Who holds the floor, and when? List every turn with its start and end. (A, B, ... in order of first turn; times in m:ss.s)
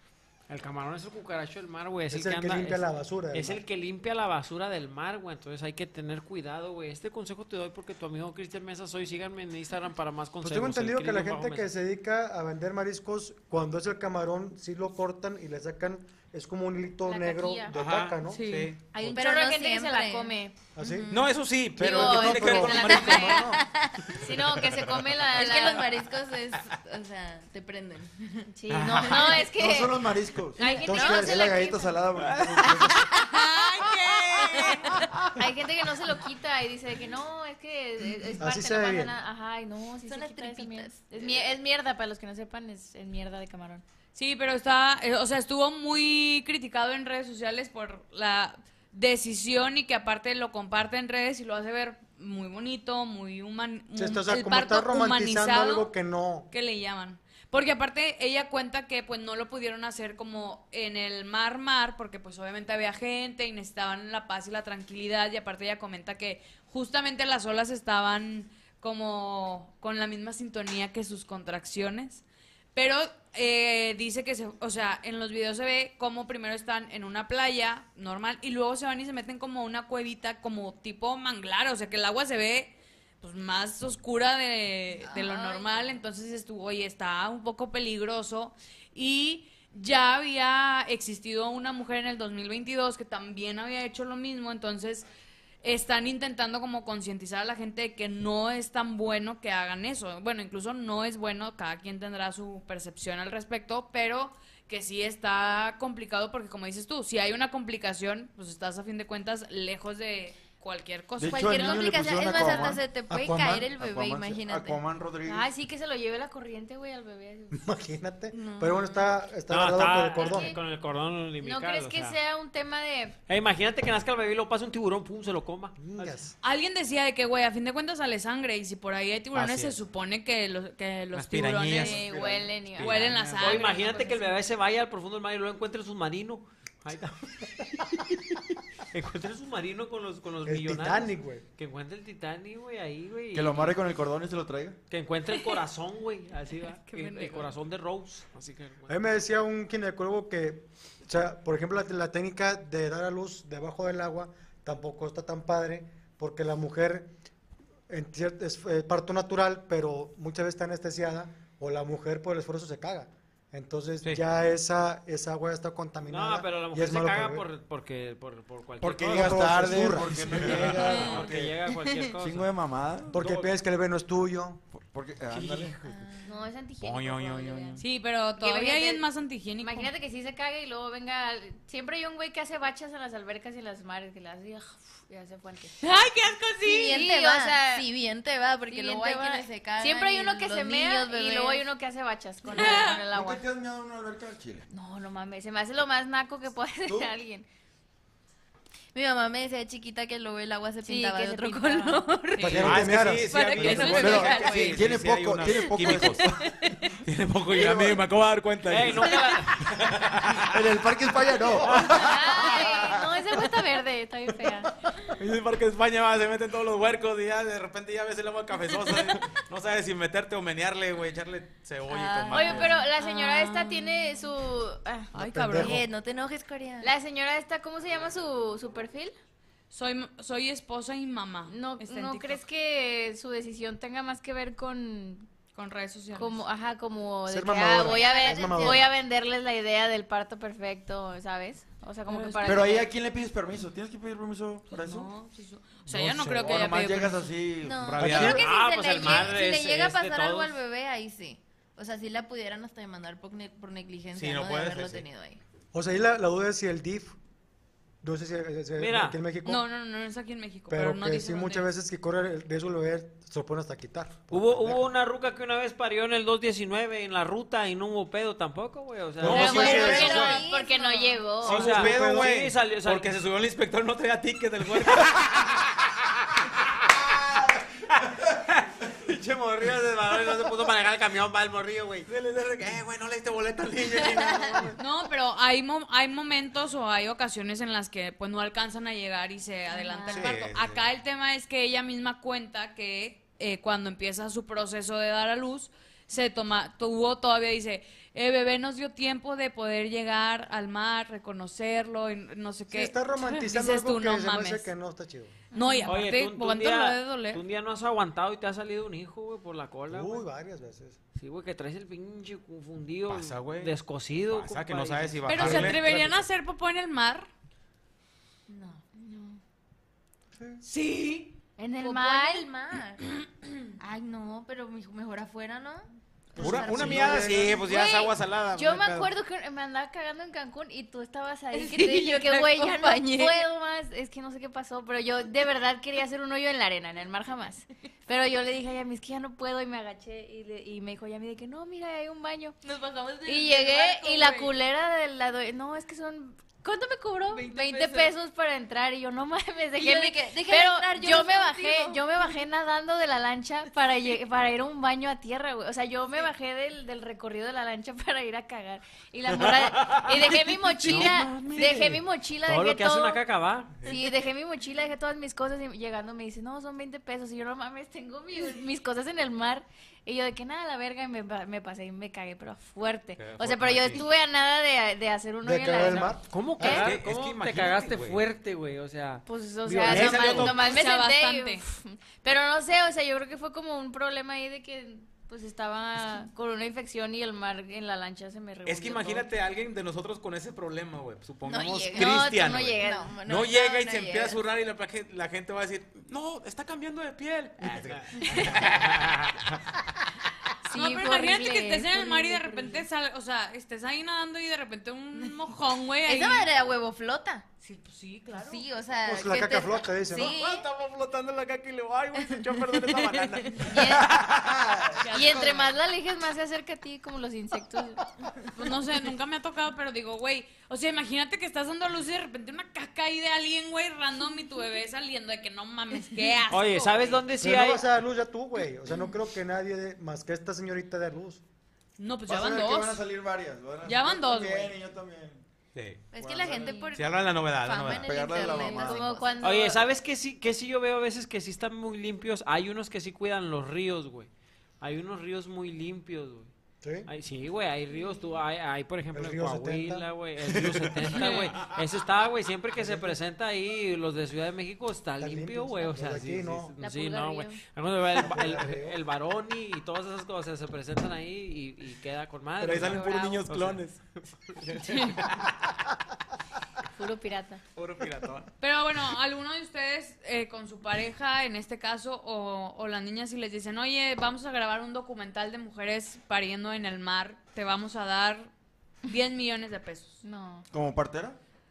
0:00.5-0:11.7 A
0:02.1-0:03.6 B
0:10.4-0:18.4 B
0:17.0-0:17.7 C
0:17.7-0:18.9 D
0:18.2-0:18.7 E
0:18.9-0:20.5 C
0:19.0-0:21.2 F
0:20.7-0:21.2 B
0:21.1-0:23.5 D
0:21.8-0:23.6 B
0:21.8-0:25.9 C
0:21.9-0:24.2 F
0:25.3-0:29.5 F
0:28.5-0:32.0 C
0:28.7-0:29.1 D
0:29.4-0:33.0 G
0:30.8-0:31.7 B
0:30.9-0:31.5 F
0:32.3-0:32.6 D
0:32.6-0:33.0 C
0:33.2-0:34.9 E
0:34.1-0:34.4 D
0:34.4-0:34.8 C
0:35.4-0:43.8 C
0:38.4-0:39.1 B
0:40.0-0:41.5 F
0:44.1-0:55.9 E
0:54.0-0:56.5 B
0:56.5-1:35.0 E
1:25.0-1:25.7 F
1:35.6-1:51.7 E
1:51.2-1:55.5 G
1:51.3-1:54.8 F
1:51.5-1:52.0 C
1:53.1-1:53.7 B
1:55.2-1:57.6 C
1:57.5-2:00.6 B
1:58.3-1:58.8 F
1:59.5-2:02.2 A
2:00.2-2:00.6 C
2:01.4-2:03.2 C
2:03.3-2:06.3 A
2:05.8-2:06.3 B
2:06.4-2:12.0 E
2:09.3-2:09.8 D
2:11.1-2:12.1 D
2:11.7-2:12.9 C
2:12.0-2:12.6 G
2:12.7-2:13.6 D
2:12.8-2:14.3 E
2:13.4-2:23.8 A
2:20.4-2:21.4 B
2:23.3-2:24.8 G
2:24.9-2:29.1 A
2:26.9-2:27.5 E
2:28.9-2:37.1 B
2:37.9-2:47.4 B
2:46.0-2:52.5 A
2:48.8-2:51.6 G
2:49.1-2:50.7 B
2:50.1-2:50.8 D
2:52.2-2:53.2 G
2:53.1-2:54.6 B
2:53.2-2:53.5 A
2:54.7-2:55.9 G
2:55.4-2:55.6 D
2:55.8-2:56.3 F
2:56.2-2:59.0 C
2:56.8-2:57.8 D
2:57.8-2:59.9 E
2:59.6-3:05.7 C
3:05.8-3:07.0 E
3:06.6-3:11.6 F
3:06.8-3:07.9 C
3:08.7-3:13.4 C
3:12.5-3:13.0 E
3:12.5-3:12.8 F
3:12.6-3:14.6 G
3:14.7-3:17.4 C
3:16.8-3:17.1 G
3:18.9-3:22.8 F
3:20.8-3:24.8 C
3:22.4-3:23.4 B
3:22.4-3:26.3 D
3:23.3-3:24.8 F
3:23.6-3:24.5 E
3:23.6-3:26.4 G
3:25.8-3:26.9 C
3:27.0-3:30.7 D
3:27.5-3:28.1 G
3:28.7-3:29.7 A
3:30.5-3:33.0 G
3:31.7-3:32.1 D
3:31.9-3:34.7 C
3:35.0-3:42.8 D
3:41.9-3:42.7 F
3:42.1-3:45.1 C
3:42.9-3:43.9 E
3:45.1-3:45.8 E
3:45.1-3:45.9 B
3:45.5-3:46.9 F
3:46.8-3:49.1 C
3:49.7-3:52.4 E
3:51.5-3:55.3 C
3:55.5-3:56.4 E
3:56.1-4:02.9 C
3:57.2-3:58.9 B
3:57.7-3:58.9 F
4:02.1-4:02.6 E
4:02.4-4:05.1 G
4:04.7-4:07.3 E
4:05.9-4:06.6 B
4:06.2-4:08.0 G
4:07.6-4:15.4 F
4:07.8-4:08.4 D
4:08.0-4:08.4 B
4:08.2-4:10.6 A
4:14.1-4:15.0 D
4:15.7-4:17.2 B
4:18.0-4:19.6 B
4:18.8-4:19.2 A
4:19.4-4:21.6 E
4:20.7-4:24.9 B
4:24.3-4:30.2 A
4:29.2-4:30.4 D
4:29.2-4:30.1 B
4:29.2-4:31.3 F
4:29.4-4:31.7 C
4:31.4-4:33.2 A
4:31.4-4:35.8 D
4:31.5-4:32.3 B
4:38.2-4:42.1 A
4:42.1-4:44.8 D
4:44.8-5:04.7 E
4:49.7-4:50.1 C
4:50.1-4:50.8 D
5:02.7-5:05.3 B
5:05.5-5:07.4 E
5:05.5-5:05.9 C
5:05.9-5:10.2 A
5:09.9-5:11.0 B
5:11.2-5:15.5 A
5:13.1-5:13.7 D
5:14.2-5:15.8 D
5:15.3-5:17.3 E
5:15.4-5:16.2 B
5:18.7-5:19.4 C
5:20.6-5:21.4 E
5:21.6-5:22.5 C
5:21.8-5:23.0 F
5:23.8-5:27.7 F
5:26.3-5:27.6 B
5:26.4-5:29.1 D
5:27.6-5:42.6 C
5:31.5-5:33.5 F
5:42.6-5:44.5 E
5:43.2-6:03.2 C
5:47.3-5:48.1 E
5:49.8-5:52.0 F
5:59.5-6:03.8 A
6:00.9-6:01.1 D
6:03.8-6:16.9 C
6:13.2-6:14.0 D
6:15.4-6:16.8 B
6:16.3-6:19.2 A
6:16.6-6:18.2 D
6:19.3-6:29.3 C
6:19.6-6:20.5 B
6:19.8-6:20.5 D
6:20.3-6:21.6 E
6:28.6-6:39.8 D
6:31.4-6:34.4 F
6:31.9-6:33.2 C
6:38.2-6:38.7 C
6:40.6-6:42.8 C
6:40.7-6:46.5 E
6:46.0-6:47.4 F
6:47.6-6:48.6 E
6:48.3-6:50.7 F
6:49.0-6:50.3 B
6:50.1-6:55.0 D
6:53.7-6:54.1 C
6:55.0-6:55.7 E
6:55.1-6:58.0 C
6:58.5-7:07.2 E
7:06.5-7:07.9 A
7:07.4-7:11.4 B
7:12.0-7:13.0 E
7:12.3-7:15.4 G
7:13.8-7:14.7 E
7:15.7-7:16.1 D
7:16.1-7:19.7 F
7:16.2-7:16.8 G
7:16.6-7:16.9 C
7:16.9-7:18.1 D
7:17.9-7:19.2 G
7:18.3-7:19.8 C
7:19.4-7:24.3 A
7:24.8-7:26.5 A
7:26.8-7:27.1 B
7:27.0-7:43.9 A
7:29.1-7:30.1 B
7:30.7-7:31.8 D
7:31.2-7:31.5 E
7:32.7-7:33.2 B
7:35.2-7:36.7 B
7:36.8-7:37.6 C
7:38.2-7:39.0 B
7:42.6-7:44.0 D
7:42.8-7:43.2 C
7:44.5-7:45.1 A
7:44.6-7:45.7 D
7:46.9-7:47.6 C
7:47.7-7:48.5 D
7:48.6-7:58.5 E
7:59.0-8:00.2 E
8:00.2-8:00.6 C
8:00.7-8:01.4 G